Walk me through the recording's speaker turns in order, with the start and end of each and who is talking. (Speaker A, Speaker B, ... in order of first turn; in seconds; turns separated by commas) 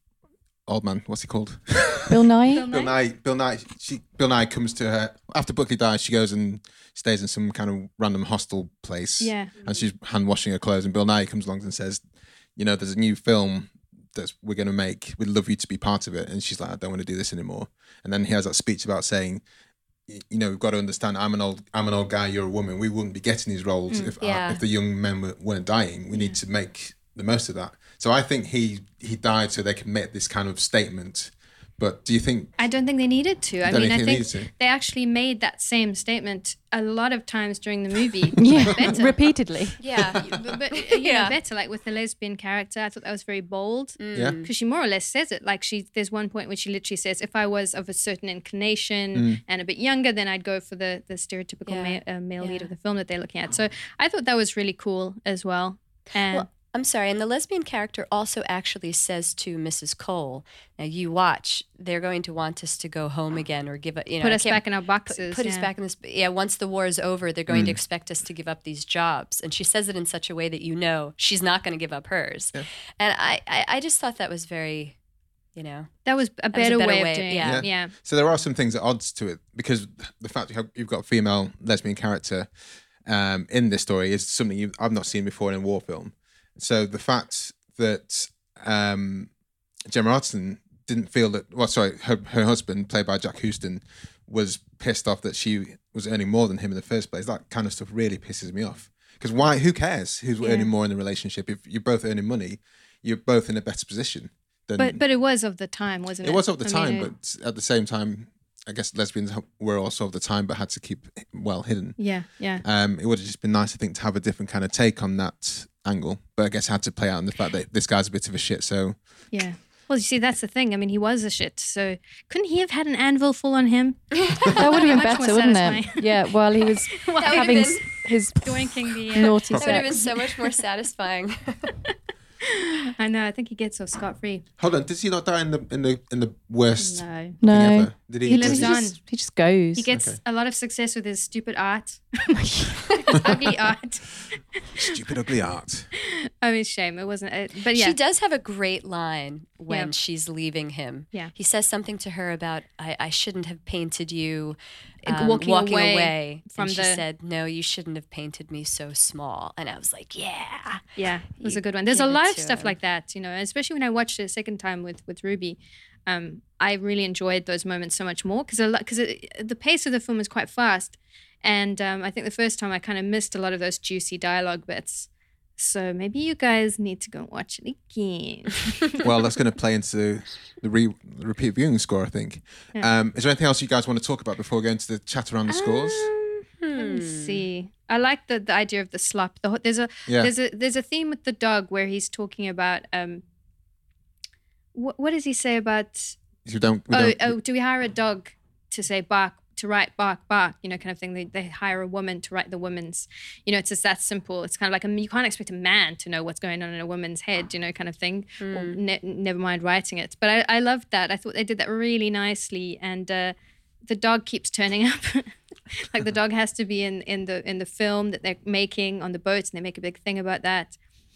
Speaker A: 0.7-12.0, Speaker B: 2.1-2.7, Speaker C: 2.5-3.0, Speaker C: 9.2-9.6, Speaker A: 12.6-19.4, Speaker A: 20.1-32.5, Speaker D: 24.2-24.6, Speaker C: 26.1-26.4, Speaker C: 32.6-39.1, Speaker A: 33.6-34.5, Speaker B: 38.4-39.8, Speaker A: 38.4-38.9, Speaker D: 39.8-41.4, Speaker C: 40.2-56.5, Speaker D: 44.0-44.5, Speaker A: 49.1-49.4, Speaker D: 51.7-52.7, Speaker D: 56.3-75.0, Speaker C: 64.2-65.7, Speaker A: 67.5-67.8, Speaker D: 75.6-75.9, Speaker C: 76.0-77.9, Speaker D: 76.5-77.7, Speaker A: 77.4-82.5, Speaker A: 83.1-89.3, Speaker A: 89.9-105.0, Speaker C: 100.4-100.7, Speaker C: 104.8-107.1, Speaker A: 106.2-112.0, Speaker C: 112.0-112.6, Speaker A: 112.6-119.0, Speaker C: 119.3-126.3, Speaker D: 124.2-124.9, Speaker B: 124.6-130.1, Speaker C: 126.9-127.9, Speaker D: 127.2-127.8, Speaker C: 128.4-130.0, Speaker D: 129.5-131.7, Speaker C: 132.4-134.5, Speaker A: 134.6-138.9, Speaker C: 136.8-137.4, Speaker B: 137.4-139.9, Speaker C: 138.3-139.0, Speaker C: 139.8-144.8, Speaker A: 139.9-140.2, Speaker B: 142.4-142.8, Speaker A: 144.8-145.9, Speaker C: 146.0-148.0, Speaker D: 147.7-162.8, Speaker C: 155.1-157.0, Speaker C: 161.0-179.1, Speaker A: 179.0-186.1, Speaker C: 185.5-193.2, Speaker D: 186.6-187.4, Speaker A: 190.1-190.3, Speaker C: 194.7-196.2, Speaker A: 196.4-197.4, Speaker C: 196.9-220.7, Speaker D: 208.4-208.8